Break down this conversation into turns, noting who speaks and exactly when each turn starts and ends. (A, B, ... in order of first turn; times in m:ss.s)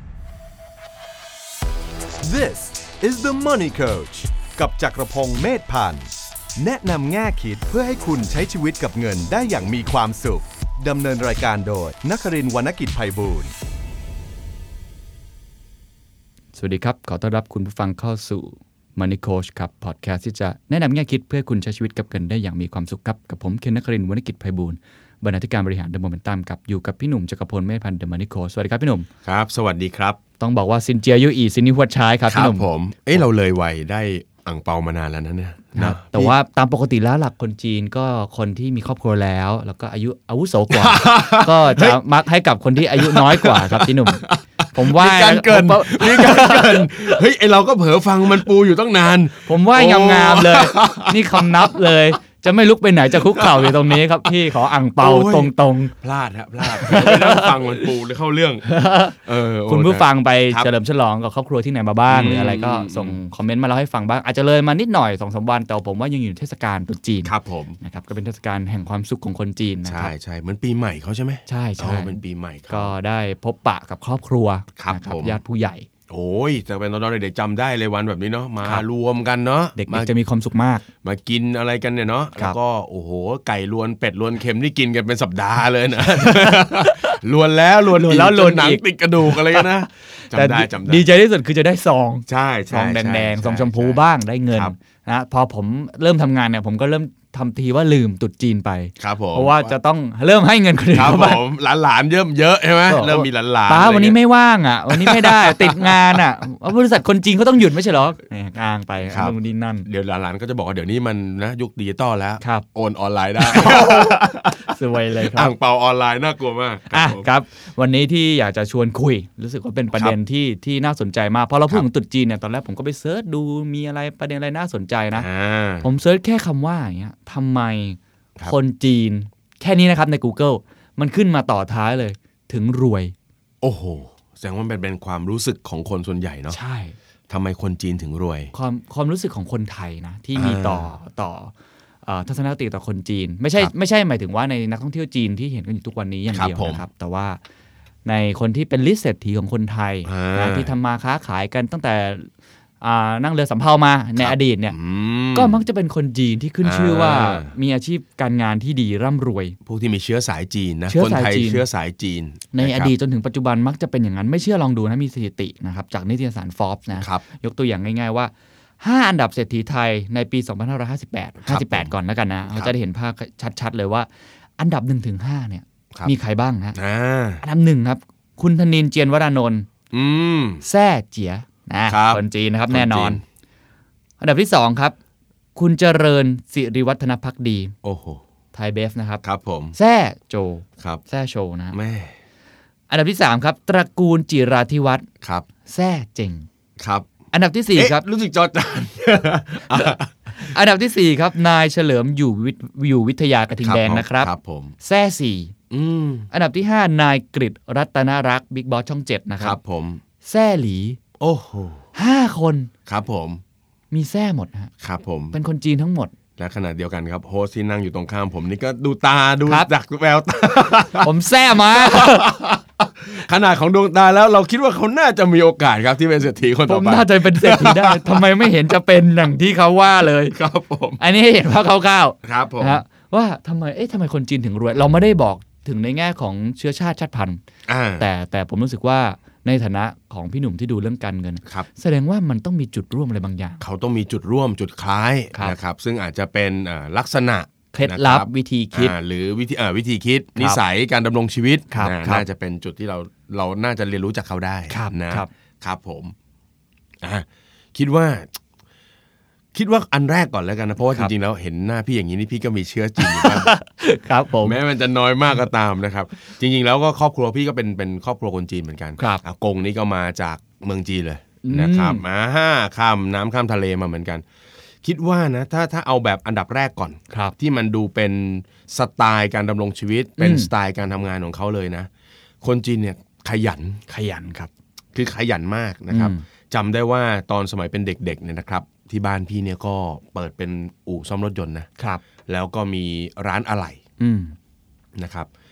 0:02.2-0:13.5 A
0:16.6-0:29.1 B
0:29.2-0:30.2 C
0:30.4-0:32.6 B
0:32.3-0:36.3 C
0:35.8-0:47.2 B
0:40.7-0:42.0 C
0:42.9-0:52.1 C
0:49.4-0:55.9 B
0:53.2-0:54.0 C
0:55.0-0:58.7 C
0:56.6-0:57.8 B
0:58.7-1:10.1 B
0:59.2-1:00.7 C
1:02.1-1:03.2 C
1:07.2-1:07.8 C
1:09.9-1:12.9 C
1:11.5-1:12.2 B
1:12.7-1:15.9 B
1:14.8-1:15.4 C
1:16.1-1:20.1 C
1:19.8-1:20.8 B
1:21.0-1:31.1 C
1:26.2-1:27.2 B
1:27.9-1:41.4 B
1:32.3-1:34.0 C
1:39.0-1:39.7 C
1:40.9-1:44.2 C
1:42.9-1:49.9 B
1:44.9-1:46.2 C
1:49.1-1:54.7 C
1:53.4-1:55.5 B
1:55.3-1:57.3 C
1:56.9-2:05.3 B
2:05.2-2:05.9 C
2:05.8-2:13.1 B
2:13.6-2:16.6 C
2:16.5-2:17.0 B
2:17.3-2:18.5 C
2:18.5-2:21.5 B
2:20.3-2:20.9 C
2:22.0-2:27.4 B
2:26.3-2:26.8 C
2:28.0-2:32.3 B
2:30.0-2:30.7 C
2:32.8-2:34.8 B
2:34.2-2:35.6 C
2:35.3-2:39.6 B
2:36.6-2:37.5 C
2:39.7-2:42.9 C
2:40.9-2:41.6 B
2:42.5-2:56.8 B
2:47.0-2:47.2 C
2:51.4-2:51.9 C
2:52.5-2:52.7 C
2:56.7-2:57.4 C
2:57.4-2:59.7 B
2:59.9-3:00.6 C
3:00.6-3:03.2 B
3:01.9-3:03.2 C
3:04.2-3:05.0 B
3:05.6-3:07.7 B
3:07.8-3:08.2 C
3:08.5-3:09.2 B
3:09.2-3:09.7 C
3:09.7-3:11.8 B
3:11.7-3:12.1 C
3:12.9-3:15.0 B
3:15.7-3:16.5 B
3:16.8-3:17.1 C
3:17.3-3:18.0 B
3:17.7-3:20.1 C
3:19.7-3:24.3 B
3:23.6-3:24.7 C
3:24.8-3:25.5 B
3:25.7-3:26.3 C
3:26.3-3:29.6 B
3:29.4-3:30.0 C
3:30.2-3:31.0 B
3:31.2-3:31.8 C
3:31.9-3:32.7 B
3:32.8-3:33.4 C
3:33.9-3:34.7 B
3:34.8-3:35.3 C
3:35.3-3:36.1 B
3:36.4-3:48.5 C
3:41.0-3:42.3 B
3:46.7-3:50.4 B
3:50.3-3:51.0 C
3:51.0-3:57.4 B
3:52.2-3:52.8 C
3:57.7-3:58.0 C
3:58.0-4:03.6 B
4:03.6-4:16.2 C
4:07.7-4:09.0 B
4:11.7-4:12.2 B
4:14.7-4:15.3 B
4:17.0-4:18.3 C
4:19.5-4:23.5 C
4:23.0-4:24.6 B
4:24.4-4:34.2 C
4:31.4-4:32.0 B
4:34.8-4:41.9 C
4:40.2-4:40.5 B
4:42.4-4:43.8 C
4:43.9-4:44.5 B
4:44.9-4:51.7 C
4:45.9-4:46.2 B
4:52.2-4:53.8 C
4:54.0-4:54.4 B
4:55.0-4:55.3 C